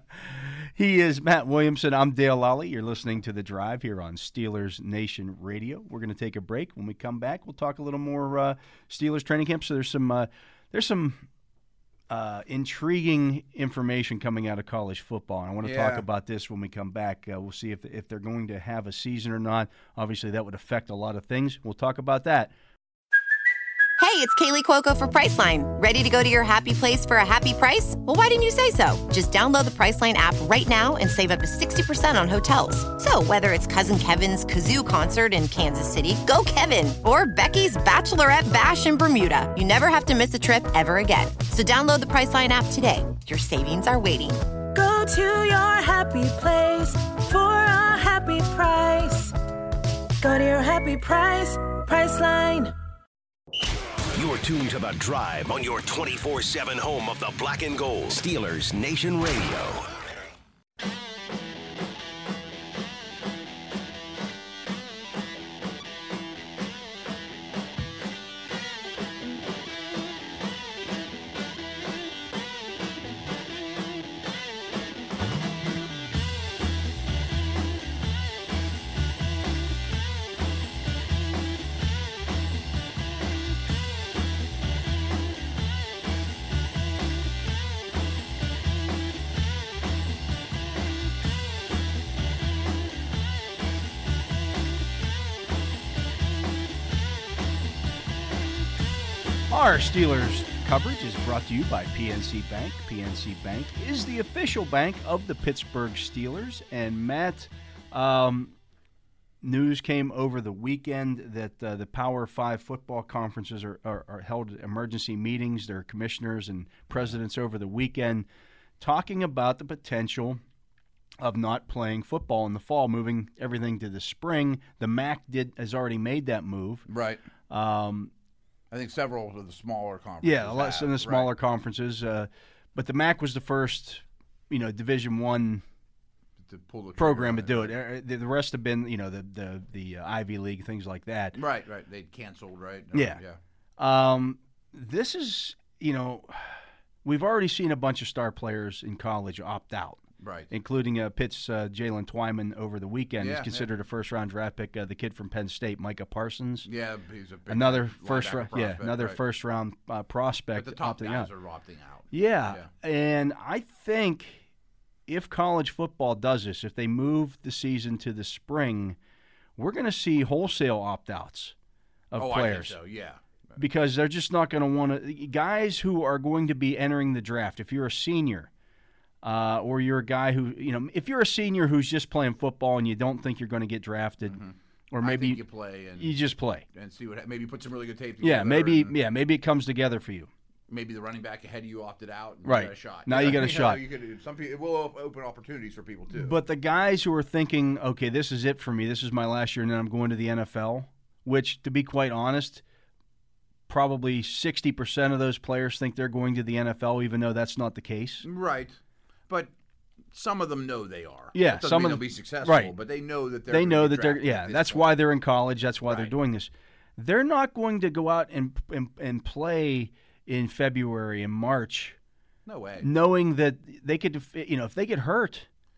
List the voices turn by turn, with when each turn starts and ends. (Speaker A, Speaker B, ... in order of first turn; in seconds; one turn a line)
Speaker A: 0.2-11.3
Speaker A: 12.1-22.5
Speaker B: 15.6-16.1
Speaker C: 24.0-44.4
Speaker D: 44.7-49.3
Speaker D: 50.2-52.7
Speaker E: 54.1-59.9
Speaker A: 99.5-108.5
Speaker A: 109.4-118.3
Speaker A: 118.8-120.4
Speaker A: 121.2-126.9
Speaker B: 126.9-127.2
Speaker A: 127.5-128.1
Speaker B: 128.7-131.3
Speaker A: 130.2-135.6
Speaker B: 136.4-137.8
Speaker A: 137.0-141.4
Speaker B: 141.3-143.4
Speaker A: 142.9-143.2
Speaker A: 143.8-156.7
Speaker B: 150.2-150.5
Speaker B: 153.2-153.7
Speaker B: 156.6-159.2
Speaker A: 157.5-161.3
Speaker B: 160.5-162.7
Speaker A: 162.1-164.4
Speaker A: 165.1-169.0
Speaker A: 169.6-171.5
Speaker A: 172.1-172.8
Speaker B: 172.2-173.6
Speaker A: 173.6-178.5
Speaker A: 179.2-184.4
Speaker B: 184.3-188.9
Speaker A: 184.9-185.4
Speaker A: 186.0-186.7
Speaker A: 188.2-190.3
Speaker B: 190.7-196.4
Speaker A: 192.4-193.8
Speaker A: 196.1-202.6
Speaker A: 203.7-208.3
Speaker B: 208.2-209.5
Speaker B: 210.1-215.0
Speaker A: 211.3-212.7
Speaker A: 213.5-222.0
Speaker B: 215.9-216.1
Speaker B: 222.5-222.9
Speaker A: 222.8-225.5